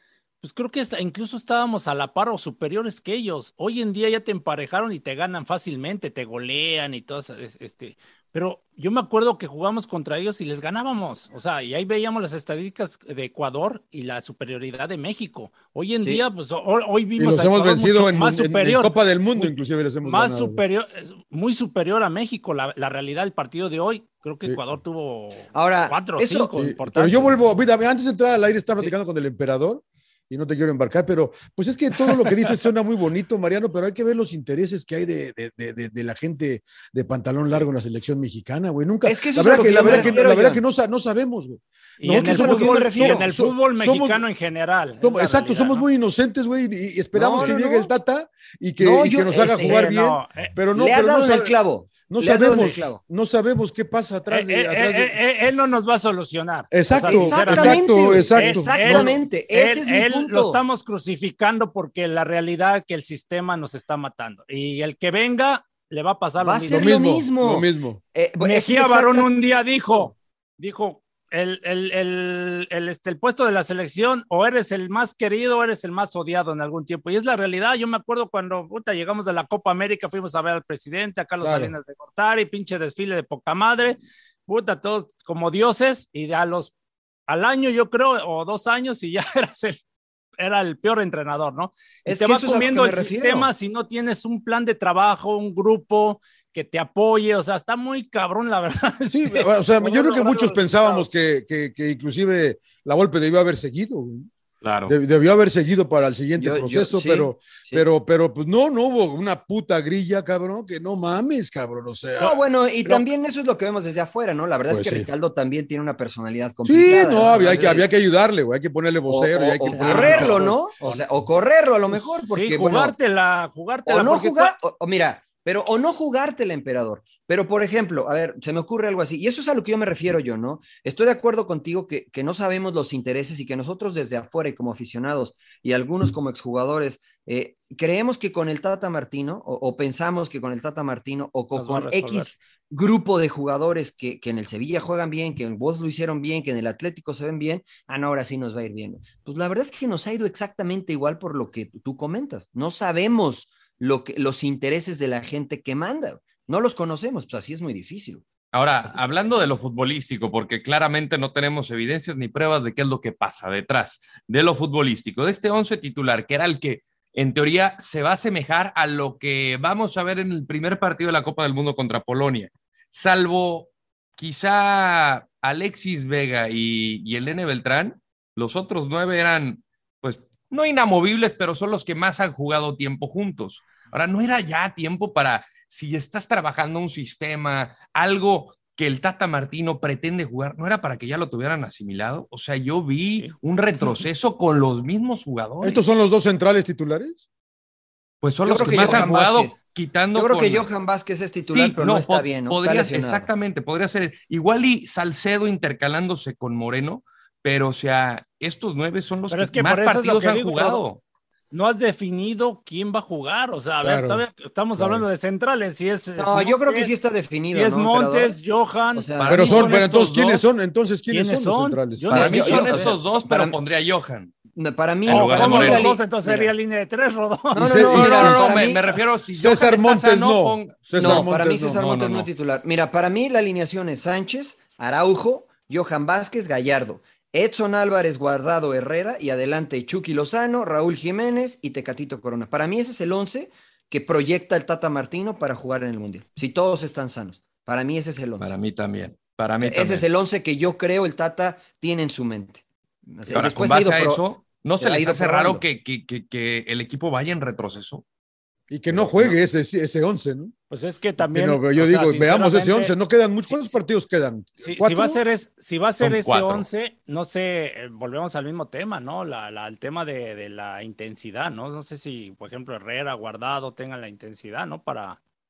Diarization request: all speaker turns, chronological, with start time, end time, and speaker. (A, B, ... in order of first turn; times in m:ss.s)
0:00.4-0:27.3 A
0:17.2-0:20.6 B
0:25.5-0:26.5 C
0:26.6-0:44.2 B
0:32.0-0:32.5 A
0:39.0-0:40.6 C
0:39.5-0:40.3 A
0:42.0-0:45.9 A
0:42.1-0:43.2 C
0:45.0-0:51.6 B
0:47.1-0:47.9 C
0:48.8-0:49.8 C
0:49.4-0:50.5 A
0:50.7-0:53.0 C
0:52.1-0:55.2 B
0:54.3-1:07.0 A
0:56.7-0:59.1 B
0:56.9-1:00.6 C
1:06.4-1:09.3 C
1:06.7-1:08.0 B
1:08.4-1:26.7 A
1:21.4-1:21.7 B
1:27.3-1:29.8 A
1:30.4-1:39.5 A
1:32.0-1:33.5 C
1:39.1-1:44.3 B
1:39.8-1:41.1 C
1:44.6-1:44.9 D
1:44.9-1:52.4 B
1:46.4-1:47.8 C
1:52.2-1:57.9 C
1:54.7-1:55.1 B
1:56.6-2:00.8 B
1:59.1-2:02.9 C
1:59.7-2:01.0 A
2:02.3-2:04.5 A
2:03.8-2:38.2 C
2:21.6-2:22.3 A
2:38.5-3:15.9 D
3:15.6-3:17.2 B
3:18.2-3:20.7 D
3:18.4-3:19.6 C
3:20.1-3:23.3 C
3:21.5-3:31.0 D
3:29.3-3:30.8 A
3:31.5-3:36.9 A
3:33.8-3:34.2 B
3:34.8-3:35.0 B
3:36.2-3:38.4 C
3:37.5-3:39.9 A
3:38.9-3:39.4 C
3:39.2-3:40.5 D
3:39.3-3:42.1 B
3:41.1-3:42.9 A
3:42.1-3:43.6 C
3:42.1-3:44.3 D
3:44.5-3:46.5 C
3:45.0-3:45.9 D
3:45.1-3:47.7 A
3:47.5-3:48.9 C
3:47.5-3:48.6 B
3:47.9-3:52.3 D
3:49.3-3:51.8 B
3:51.0-4:08.5 C
4:08.4-4:10.0 D
4:09.6-4:14.2 C
4:13.3-4:18.0 D
4:14.8-4:15.6 C
4:18.7-4:20.5 B
4:18.9-4:19.3 D
4:20.7-4:23.8 A
4:21.2-4:25.2 B
4:24.6-4:35.2 A
4:26.0-4:26.6 D